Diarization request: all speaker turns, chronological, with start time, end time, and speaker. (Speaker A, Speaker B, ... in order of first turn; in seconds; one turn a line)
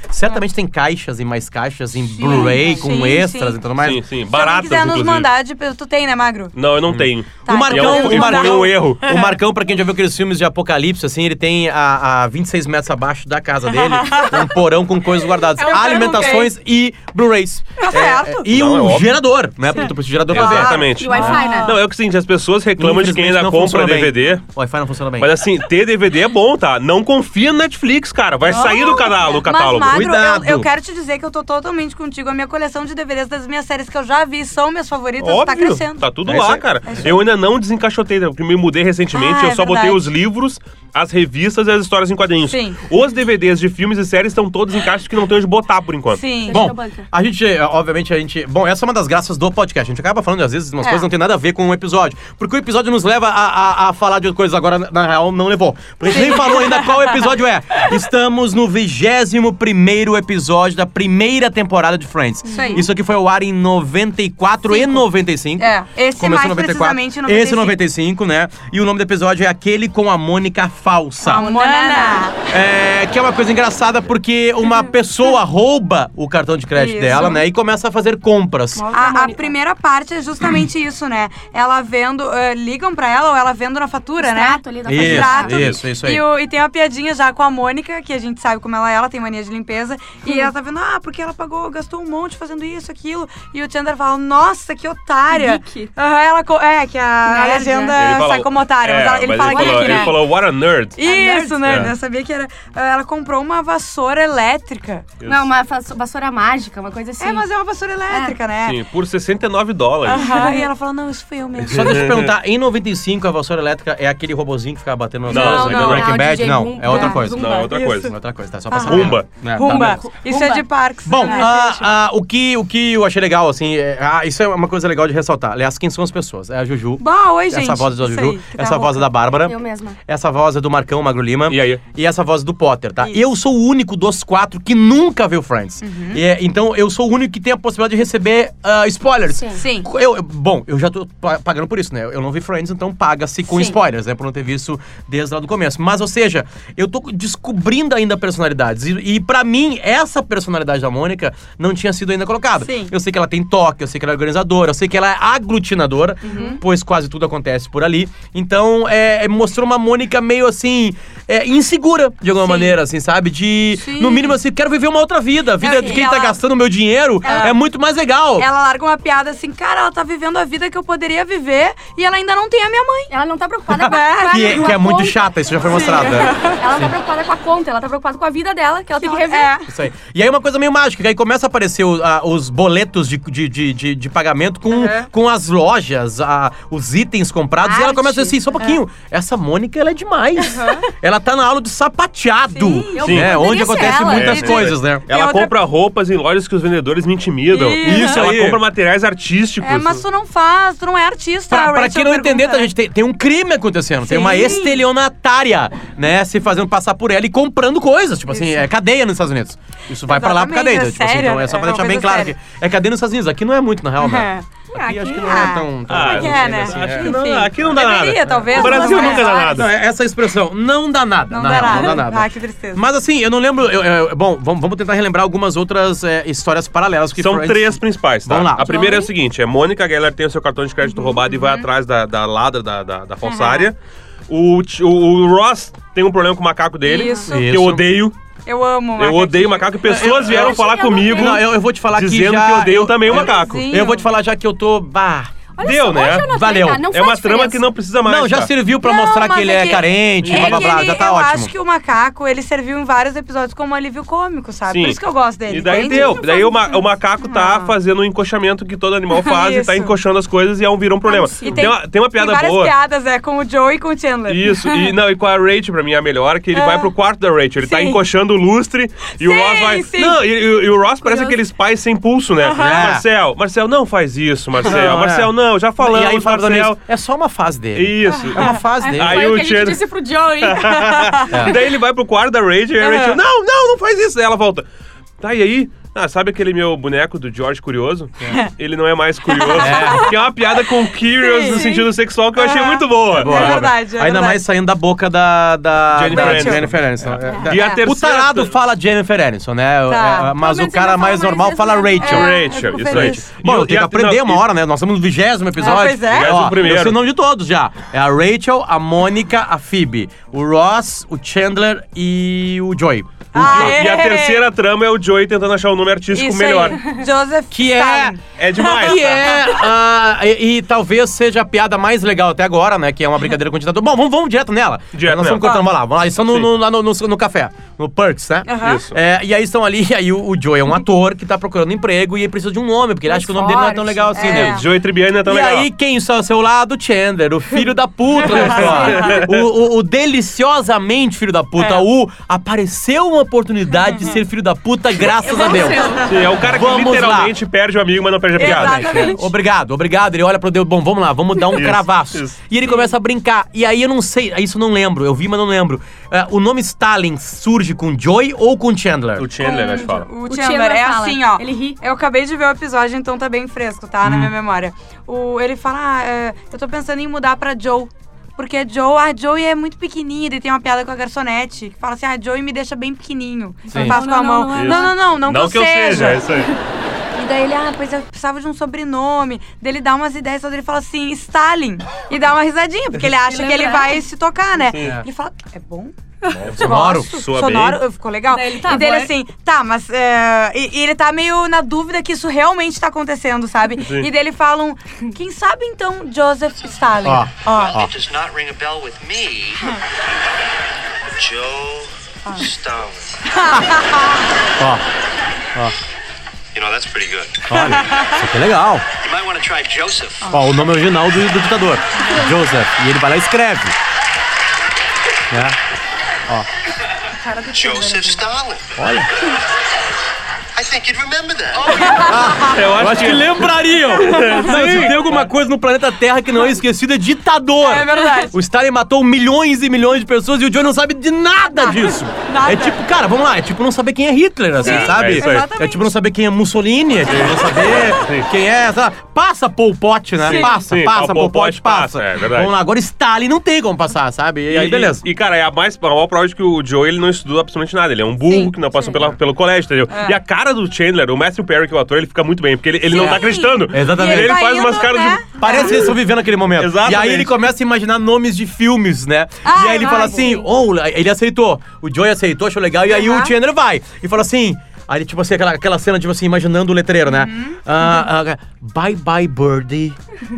Speaker A: 0.1-4.0
Speaker B: 2.1-3.6
Speaker C: 2.2-2.9
Speaker D: 3.8-5.3
Speaker B: 4.3-6.6
Speaker D: 6.5-9.0
Speaker A: 6.9-21.4
Speaker B: 7.4-9.3
Speaker B: 13.8-14.5
Speaker B: 15.6-16.5
Speaker C: 15.6-16.5
Speaker B: 17.8-18.5
Speaker D: 18.5-19.2
Speaker B: 19.7-21.8
Speaker D: 20.3-24.4
Speaker C: 21.0-21.8
Speaker A: 22.8-25.5
Speaker D: 25.2-30.0
Speaker B: 28.5-36.1
Speaker A: 29.8-30.7
Speaker D: 35.2-46.2
Speaker A: 36.3-36.6
Speaker B: 36.8-37.2
Speaker B: 39.1-40.0
Speaker B: 42.5-42.8
Speaker B: 46.1-46.7
Speaker C: 46.4-47.1
Speaker A: 46.5-71.5
Speaker B: 50.8-51.1
Speaker B: 56.1-57.2
Speaker C: 62.5-62.9
Speaker B: 62.5-62.9
Speaker B: 65.6-67.8
Speaker C: 71.2-72.3
Speaker B: 71.2-72.4
Speaker A: 72.5-78.9
Speaker B: 76.8-77.4
Speaker C: 77.1-77.4
Speaker C: 78.8-79.5
Speaker B: 78.9-100.2
Speaker C: 84.2-85.7
Speaker A: 84.8-86.2
Speaker C: 95.3-95.9
Speaker C: 97.3-98.0
Speaker D: 97.9-101.0
Speaker C: 99.4-100.2
Speaker B: 101.0-105.1
Speaker C: 101.0-101.9
Speaker D: 101.7-101.9
Speaker D: 105.2-105.5
Speaker C: 105.2-107.5
Speaker B: 107.2-108.8
Speaker C: 108.1-108.4
Speaker D: 108.6-110.3
Speaker B: 110.1-112.1
Speaker C: 110.1-110.7
Speaker A: 111.6-120.0
Speaker D: 111.7-112.3
Speaker D: 115.3-116.3
Speaker C: 115.3-117.8
Speaker B: 115.3-116.1
Speaker B: 116.9-117.9
Speaker D: 117.1-118.2
Speaker B: 118.7-121.9
Speaker D: 118.8-119.3
Speaker C: 119.6-121.5
Speaker A: 121.0-168.5
Speaker B: 127.0-129.0
Speaker C: 129.3-130.0
Speaker D: 131.5-131.8
Speaker B: 135.8-136.2
Speaker B: 139.6-139.9
Speaker B: 152.6-152.9
Speaker B: 156.2-156.6
Speaker B: 162.4-162.8
Speaker B: 163.8-164.4
Speaker B: 165.6-166.4
Speaker C: 165.7-166.1
Speaker B: 167.2-167.6
Speaker C: 167.2-167.5
Speaker B: 168.4-173.1
Speaker C: 173.1-175.2
Speaker A: 173.7-176.9
Speaker B: 173.8-174.8
Speaker B: 175.6-176.6
Speaker C: 175.9-179.6
Speaker B: 179.0-179.7
Speaker A: 179.7-195.1
Speaker B: 184.7-185.1
Speaker C: 187.6-188.6
Speaker B: 190.5-190.9
Speaker B: 192.5-195.5
Speaker C: 192.9-194.6
Speaker D: 193.0-193.4
Speaker D: 193.9-200.0
Speaker B: 197.5-198.3
Speaker A: 197.8-198.6
Speaker B: 199.6-202.7
Speaker A: 201.5-217.2
Speaker B: 204.0-204.8
Speaker B: 208.3-208.6
Speaker B: 210.1-212.3
Speaker B: 214.0-214.4
Speaker C: 214.7-215.6
Speaker B: 215.2-219.5
Speaker D: 215.9-219.7
Speaker A: 218.3-228.8
Speaker C: 218.6-219.5
Speaker B: 221.3-222.8
Speaker C: 221.6-221.9
Speaker D: 227.2-233.8
Speaker C: 228.6-229.1
Speaker B: 231.3-231.7
Speaker B: 233.2-233.7
Speaker D: 234.3-238.2
Speaker B: 236.8-237.5
Speaker C: 236.9-237.2
Speaker A: 237.3-237.9
Speaker B: 238.5-239.8
Speaker D: 239.0-243.7
Speaker A: 239.8-245.3
Speaker C: 239.9-241.5
Speaker B: 243.1-244.1
Speaker C: 245.6-247.7
Speaker D: 245.6-248.5
Speaker A: 246.2-246.9
Speaker A: 248.0-251.5
Speaker B: 248.8-256.2
Speaker D: 250.2-250.8
Speaker D: 254.7-262.7
Speaker C: 255.7-256.8
Speaker B: 257.2-257.8
Speaker B: 259.1-259.9
Speaker C: 261.1-261.7
Speaker B: 261.4-265.0
Speaker D: 264.3-276.8
Speaker B: 266.5-266.9
Speaker B: 267.6-268.0
Speaker B: 269.1-270.2
Speaker C: 271.0-271.4
Speaker B: 272.4-272.9
Speaker A: 272.5-273.1
Speaker A: 274.6-279.3
Speaker D: 277.8-279.9
Speaker B: 278.1-278.5
Speaker C: 278.8-281.1
Speaker D: 280.4-284.7
Speaker B: 280.9-281.4
Speaker A: 281.3-281.6
Speaker B: 282.8-283.2
Speaker D: 285.2-293.7
Speaker B: 289.3-290.2
Speaker A: 289.6-290.2
Speaker B: 291.2-294.4
Speaker A: 293.1-313.9
Speaker D: 295.9-298.6
Speaker B: 296.1-296.7
Speaker B: 297.4-297.8
Speaker B: 299.9-300.4
Speaker C: 300.4-302.6
Speaker B: 302.0-303.3
Speaker D: 302.0-304.4
Speaker B: 305.6-306.4
Speaker D: 305.8-307.0
Speaker B: 313.3-314.4
Speaker D: 313.4-316.8
Speaker B: 316.1-319.6
Speaker A: 317.5-334.6
Speaker D: 318.4-319.4
Speaker D: 324.9-325.5
Speaker B: 325.4-325.6
Speaker B: 328.5-328.8
Speaker D: 328.6-329.0
Speaker C: 333.1-334.4
Speaker B: 334.1-334.6
Speaker D: 334.2-335.7
Speaker A: 335.2-347.4
Speaker D: 338.2-339.4
Speaker B: 338.2-339.2
Speaker B: 341.6-341.8
Speaker B: 343.8-344.2
Speaker C: 345.1-346.1
Speaker B: 345.2-346.2
Speaker D: 346.0-349.1
Speaker B: 348.4-349.3
Speaker A: 348.4-359.3
Speaker D: 351.5-352.4
Speaker D: 359.2-360.1
Speaker B: 359.4-376.3
Speaker C: 359.4-361.8
Speaker A: 364.0-364.3
Speaker A: 373.7-374.0
Speaker C: 373.7-374.9
Speaker D: 374.5-376.5
Speaker B: 377.1-397.9
Speaker C: 383.2-384.0
Speaker D: 384.7-385.0
Speaker A: 384.8-385.1
Speaker D: 386.4-387.8
Speaker A: 386.4-387.1
Speaker C: 388.3-389.1
Speaker D: 393.8-394.1
Speaker A: 397.0-397.9
Speaker E: 397.5-399.8
Speaker E: 401.2-403.4
Speaker B: 403.3-404.2
Speaker A: 404.6-404.9
Speaker E: 406.5-407.9
Speaker A: 407.5-408.9
Speaker B: 407.5-408.2
Speaker E: 408.9-410.4
Speaker A: 410.3-413.8
Speaker A: 415.3-415.6
Speaker B: 417.2-418.2
Speaker E: 417.5-418.9
Speaker A: 418.8-419.1
Speaker E: 420.6-422.3
Speaker B: 421.7-422.6
Speaker A: 422.0-445.0
Speaker D: 422.4-425.3
Speaker B: 424.0-424.9
Speaker B: 427.6-428.3
Speaker B: 431.4-432.8
Speaker D: 434.6-435.5
Speaker B: 434.6-435.9
Speaker D: 437.0-438.3
Speaker B: 437.1-437.7
Speaker B: 440.2-440.6
Speaker D: 440.2-442.5
Speaker D: 444.5-455.9
Speaker B: 448.3-448.5
Speaker B: 449.9-450.2
Speaker B: 452.9-455.8
Speaker A: 452.9-454.4
Speaker A: 455.4-470.0
Speaker D: 456.6-457.3
Speaker B: 459.4-460.4
Speaker C: 459.8-460.3
Speaker B: 462.9-463.3
Speaker B: 467.1-467.6